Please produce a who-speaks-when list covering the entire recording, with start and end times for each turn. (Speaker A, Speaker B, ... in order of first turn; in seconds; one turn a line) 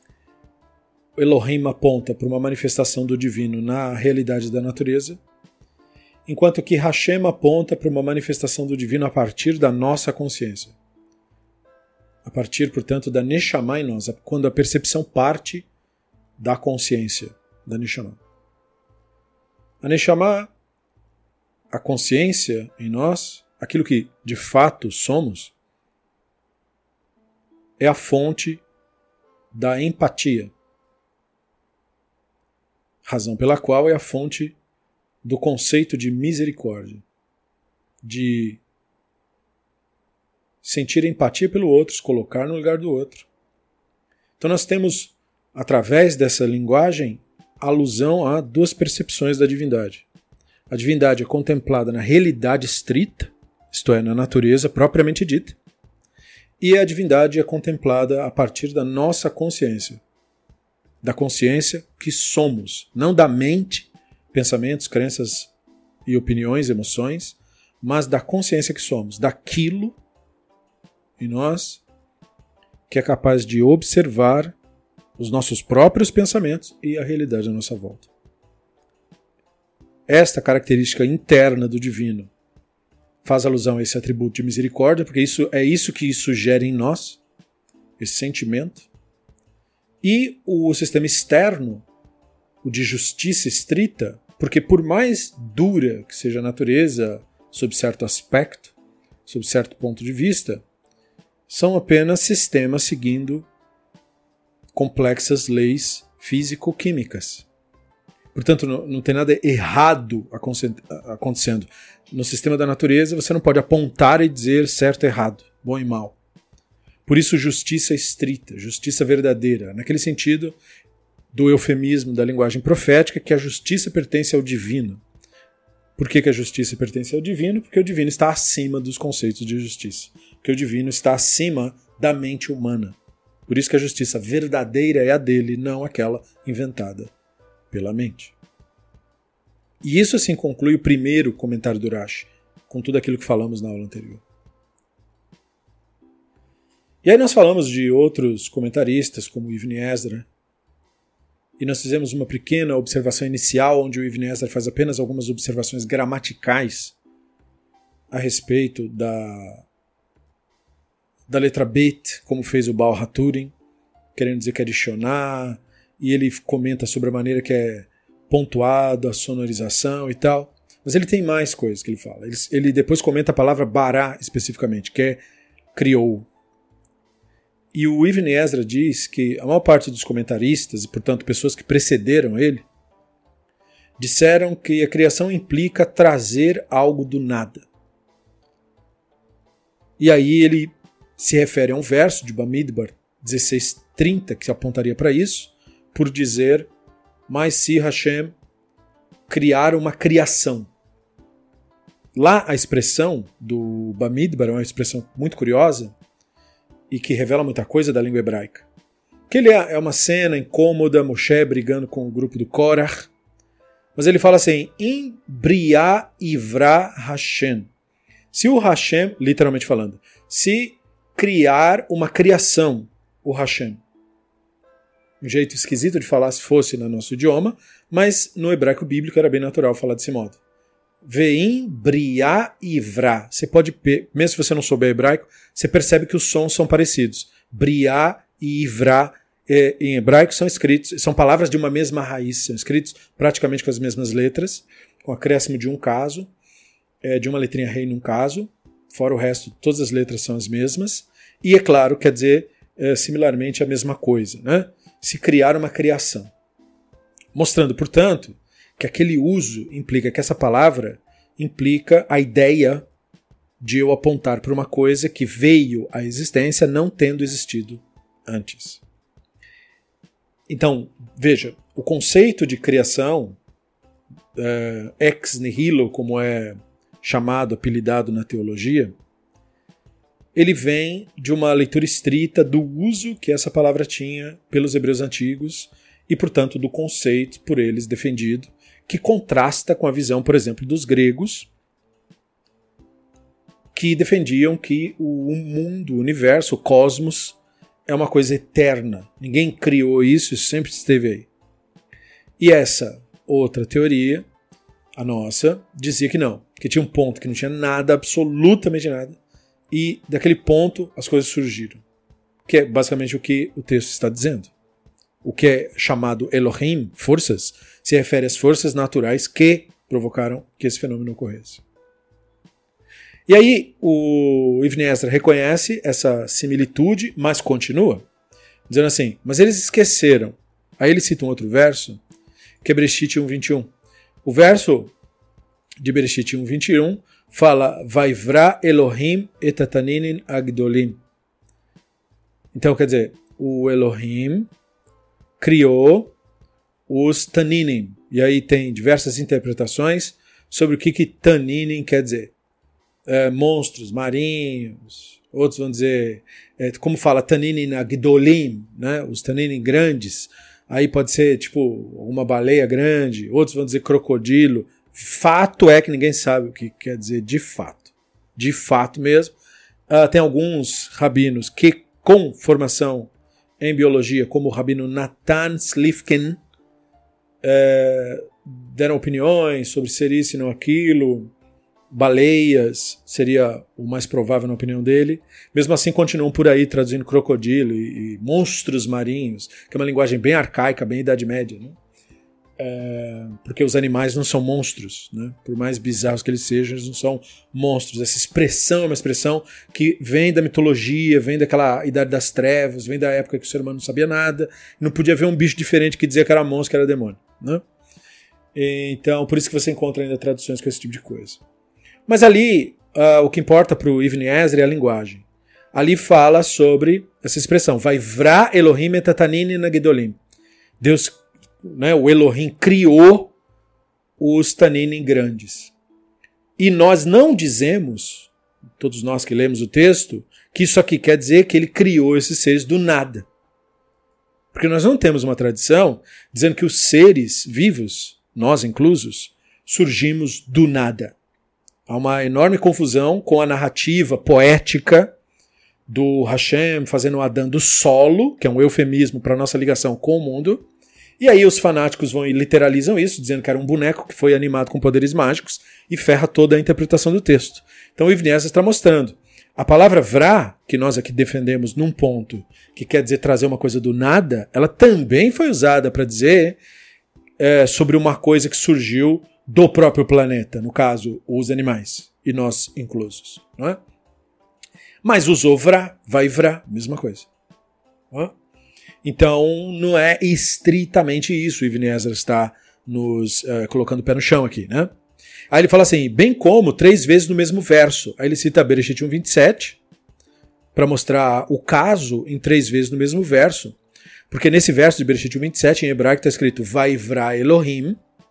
Speaker A: 1.2-5.2
Speaker A: 6.2-10.8
Speaker A: 12.2-15.7
Speaker A: 16.4-18.2
Speaker A: 19.8-20.5
Speaker A: 21.7-25.5
Speaker A: 27.8-28.6
Speaker A: 29.5-30.5
Speaker A: 33.0-34.5
Speaker A: 35.2-37.0
Speaker A: 38.0-38.6
Speaker A: 40.6-43.2
Speaker A: 44.4-50.0
Speaker A: 50.7-55.6
Speaker A: 56.6-60.0
Speaker A: 61.0-65.5
Speaker A: 66.0-70.0
Speaker A: 71.2-71.8
Speaker A: 72.9-74.5
Speaker A: 75.2-78.1
Speaker A: 80.1-82.3
Speaker A: 83.2-87.2
Speaker A: 88.0-88.9
Speaker A: 90.0-91.8
Speaker A: 92.6-98.7
Speaker A: 99.2-100.6
Speaker A: 101.5-103.5
Speaker A: 104.7-107.5
Speaker A: 108.3-116.2
Speaker A: 117.0-120.5
Speaker A: 121.3-125.0
Speaker A: 126.0-137.1
Speaker A: 137.7-138.3
Speaker A: 139.8-144.2
Speaker A: 147.0-150.3
Speaker A: 151.6-156.9
Speaker A: 158.1-159.6
Speaker A: 161.3-163.5
Speaker A: 164.1-175.2
Speaker A: 175.7-176.3
Speaker A: 177.7-182.7
Speaker A: 184.0-187.7
Speaker A: 190.0-196.7
Speaker A: 197.3-198.3
Speaker A: 199.3-200.7
Speaker A: 202.1-205.9
Speaker A: 206.9-208.7
Speaker A: 209.3-213.1
Speaker A: 213.9-217.7
Speaker A: 218.3-223.8
Speaker A: 225.2-230.4
Speaker A: 231.0-246.3
Speaker A: 247.0-256.3
Speaker A: 257.3-262.9
Speaker A: 263.6-268.8
Speaker A: 270.5-273.4
Speaker A: 274.4-278.9
Speaker A: 280.3-291.5
Speaker A: 293.7-301.3
Speaker A: 302.4-304.3
Speaker A: 305.0-309.2
Speaker A: 309.7-311.8
Speaker A: 312.4-314.5
Speaker A: 315.2-321.6
Speaker A: 323.3-328.1
Speaker A: 328.7-332.0
Speaker A: 332.6-333.7
Speaker A: 334.2-334.9
Speaker A: 335.8-341.0
Speaker A: 342.5-344.5
Speaker A: 345.4-346.1
Speaker A: 346.9-352.3
Speaker A: 353.1-369.3
Speaker A: 369.9-376.4
Speaker A: 377.4-381.3
Speaker A: 381.9-391.8
Speaker A: 392.6-407.6
Speaker A: 408.5-411.4
Speaker A: 412.1-420.2
Speaker A: 420.8-423.3
Speaker A: 424.2-425.7
Speaker A: 426.6-433.3
Speaker A: 434.5-441.1
Speaker A: 441.9-445.1
Speaker A: 445.9-450.6
Speaker A: 451.2-466.6
Speaker A: 467.4-473.8
Speaker A: 475.0-477.3
Speaker A: 479.0-484.9
Speaker A: 485.5-489.8
Speaker A: 490.7-493.8
Speaker A: 494.3-498.0